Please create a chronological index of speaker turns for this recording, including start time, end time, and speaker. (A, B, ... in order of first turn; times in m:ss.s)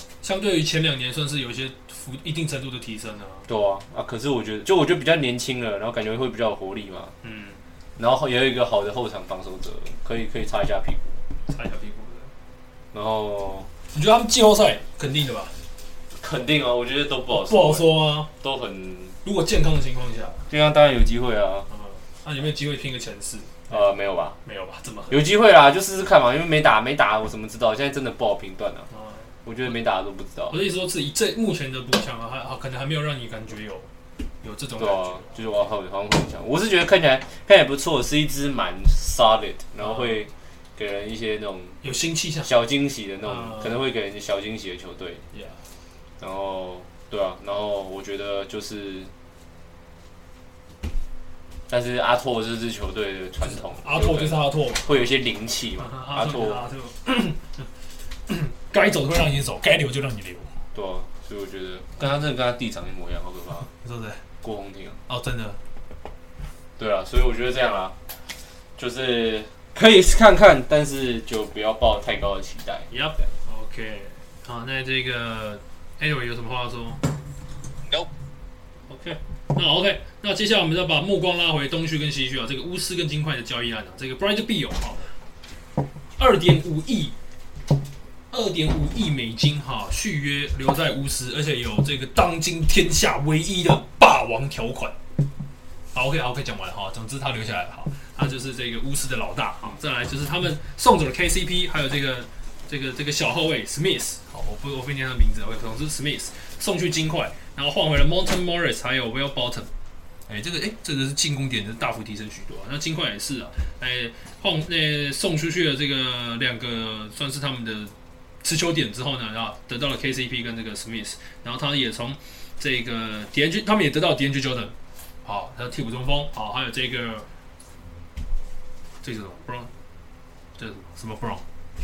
0:00.2-0:03.5 A
0:03.5-0:07.1 B
0:07.2-0:07.6 A
0:08.0-0:11.2 B
0:11.5-0:12.3 A
0:12.9-0:13.7 B
0:13.9-0:15.6 A
0:16.2-0:19.2 B
0:17.3-0:18.3 A
0:19.2-0:20.4 A
0:20.5-0:21.7 B
0:21.7-0:23.8 A
0:23.7-0:24.4 B
0:24.4-0:25.2 A
0:25.1-0:28.9 B
0:28.9-0:29.3 A
0:29.4-0:30.6 B
0:30.5-0:33.9 A
0:34.4-0:35.4 A
0:34.8-0:41.8 B
0:39.8-0:40.2 A
0:41.8-0:42.5 A
0:42.4-0:45.2 B
0:43.2-0:43.8 A
0:45.3-0:45.6 A
0:46.2-0:49.1 B
0:51.7-0:56.7 B
0:53.4-0:55.1 A
0:55.8-0:57.7 A
0:58.3-1:00.6 A
1:00.7-1:03.7 B
1:03.8-1:04.2 A
1:04.4-1:05.0 B
1:05.1-1:05.6 A
1:06.8-1:07.9 B
1:08.8-1:12.9 B
1:12.9-1:17.0 A
1:18.9-1:25.1 A
1:26.2-1:27.1 A
1:28.3-1:34.9 A
1:35.9-1:49.7 A
1:50.3-2:07.2 A
2:09.0-2:09.7 A
2:10.6-2:11.4 A